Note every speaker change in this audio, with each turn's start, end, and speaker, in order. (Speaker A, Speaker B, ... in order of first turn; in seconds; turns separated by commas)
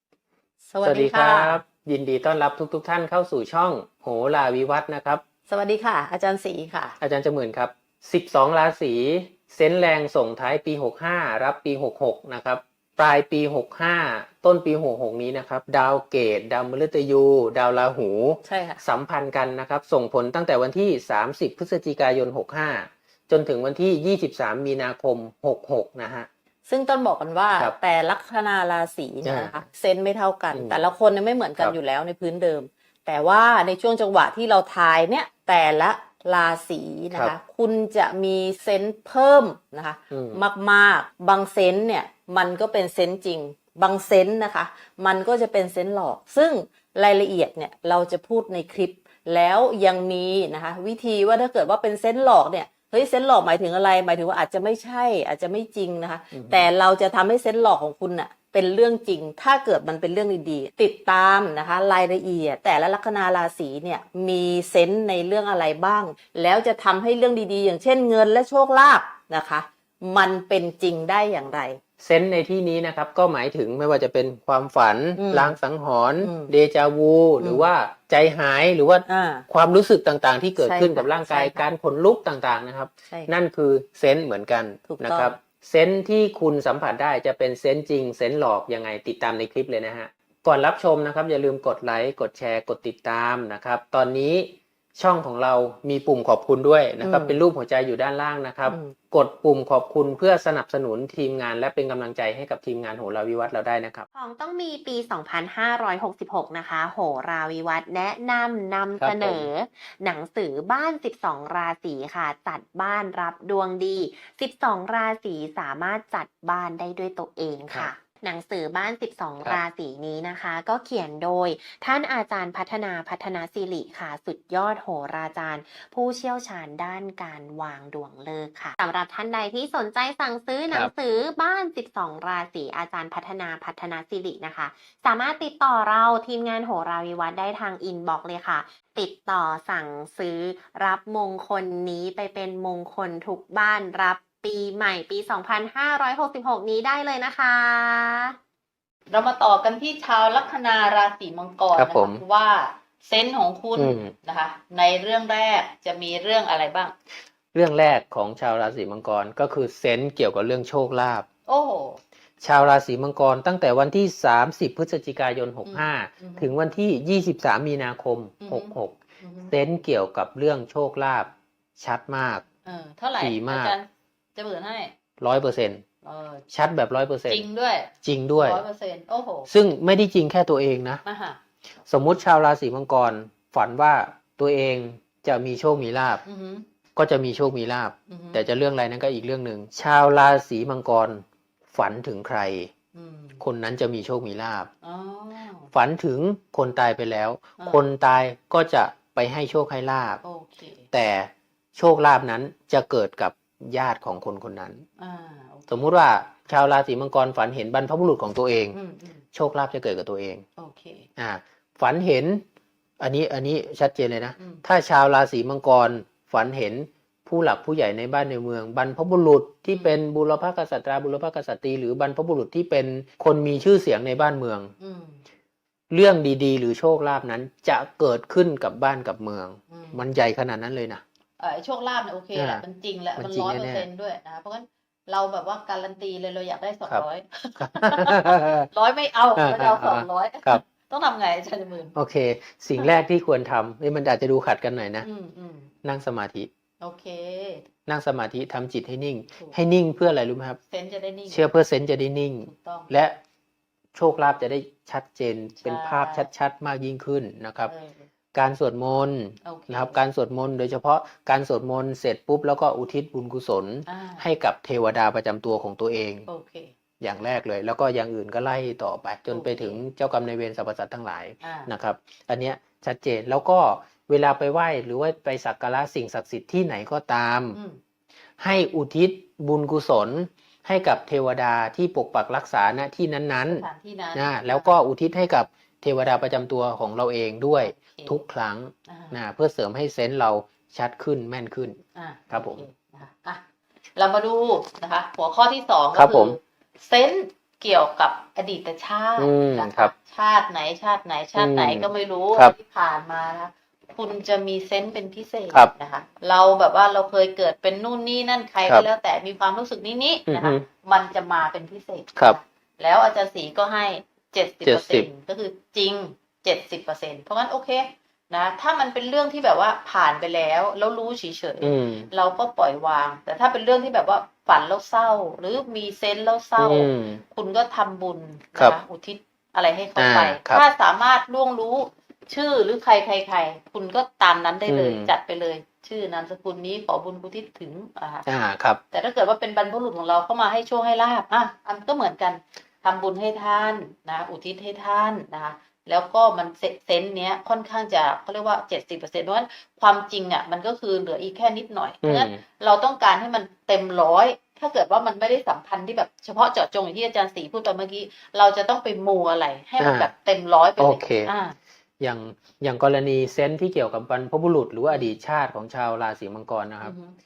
Speaker A: 0.6-1.6, Speaker B: 0.8-5.2, Speaker A: 5.5-7.0, Speaker B: 7.0-26.3, Speaker A: 18.4-18.8, Speaker A: 26.7-71.8, Speaker B: 29.2-29.6, Speaker B: 30.5-30.8, Speaker B: 40.1-40.4, Speaker B: 56.3-56.7, Speaker B: 72.0-104.0, Speaker A: 75.2-75.6, Speaker A: 76.2-76.5, Speaker A: 77.4-77.7, Speaker A: 79.1-79.5, Speaker A: 80.6-81.7, Speaker A: 84.9-85.3, Speaker A: 97.0-97.3, Speaker C: 104.1-148.3, Speaker B: 109.0-109.5, Speaker A: 149.1-156.9, Speaker B: 151.7-152.2, Speaker B: 153.8-154.1, Speaker B: 157.5-161.2, Speaker A: 161.5-162.0, Speaker B: 162.4-172.4, Speaker A: 165.7-166.5, Speaker A: 168.4-169.5, Speaker A: 172.6-174.9, Speaker B: 173.2-173.8, Speaker B: 175.2-175.8, Speaker A: 176.0-176.4, Speaker B: 176.5-177.4, Speaker A: 177.3-179.5, Speaker B: 178.0-178.6, Speaker B: 179.5-181.0, Speaker A: 181.0-181.4, Speaker B: 181.9-186.2, Speaker A: 186.2-186.6, Speaker B: 186.9-192.7, Speaker A: 188.1-188.4, Speaker A: 192.9-193.4, Speaker B: 193.4-194.7, Speaker A: 194.8-195.7, Speaker B: 195.7-200.2, Speaker A: 200.2-200.8, Speaker B: 200.9-204.8, Speaker A: 205.0-205.7, Speaker B: 205.7-208.8, Speaker A: 208.7-209.2, Speaker B: 209.3-210.4, Speaker A: 210.6-211.1, Speaker B: 211.2-212.4, Speaker B: 213.0-224.7, Speaker A: 219.7-220.0, Speaker A: 224.8-225.2, Speaker B: 225.9-231.0, Speaker A: 229.7-230.0, Speaker A: 231.4-241.9, Speaker B: 232.3-232.6, Speaker B: 233.2-233.8, Speaker B: 237.6-238.7, Speaker B: 239.3-240.6, Speaker B: 241.9-245.1, Speaker A: 245.0-245.7, Speaker B: 245.8-246.5, Speaker A: 246.8-247.7, Speaker B: 247.9-250.6, Speaker A: 250.7-251.5, Speaker B: 251.3-253.2, Speaker A: 252.4-252.9, Speaker B: 253.9-257.7, Speaker A: 255.6-256.3, Speaker A: 257.7-258.0, Speaker B: 258.3-266.3, Speaker A: 259.4-260.0, Speaker A: 263.9-264.2, Speaker A: 266.3-266.7, Speaker B: 267.0-277.6, Speaker A: 269.3-269.8, Speaker A: 271.4-271.7, Speaker B: 278.4-292.6, Speaker A: 283.4-284.8, Speaker A: 287.6-288.2, Speaker A: 288.9-289.1, Speaker A: 291.9-293.4, Speaker A: 293.9-338.2, Speaker B: 295.9-296.4, Speaker B: 299.2-299.9, Speaker B: 301.4-302.5, Speaker B: 310.3-310.6, Speaker B: 314.6-315.1, Speaker B: 321.6-322.1, Speaker B: 326.6-327.2, Speaker B: 329.9-330.6, Speaker B: 334.7-335.1, Speaker B: 338.2-338.8, Speaker A: 338.9-361.6, Speaker B: 352.0-352.4, Speaker B: 359.8-360.1, Speaker B: 360.8-361.3, Speaker B: 362.0-366.9, Speaker A: 364.9-365.2, Speaker A: 366.8-367.1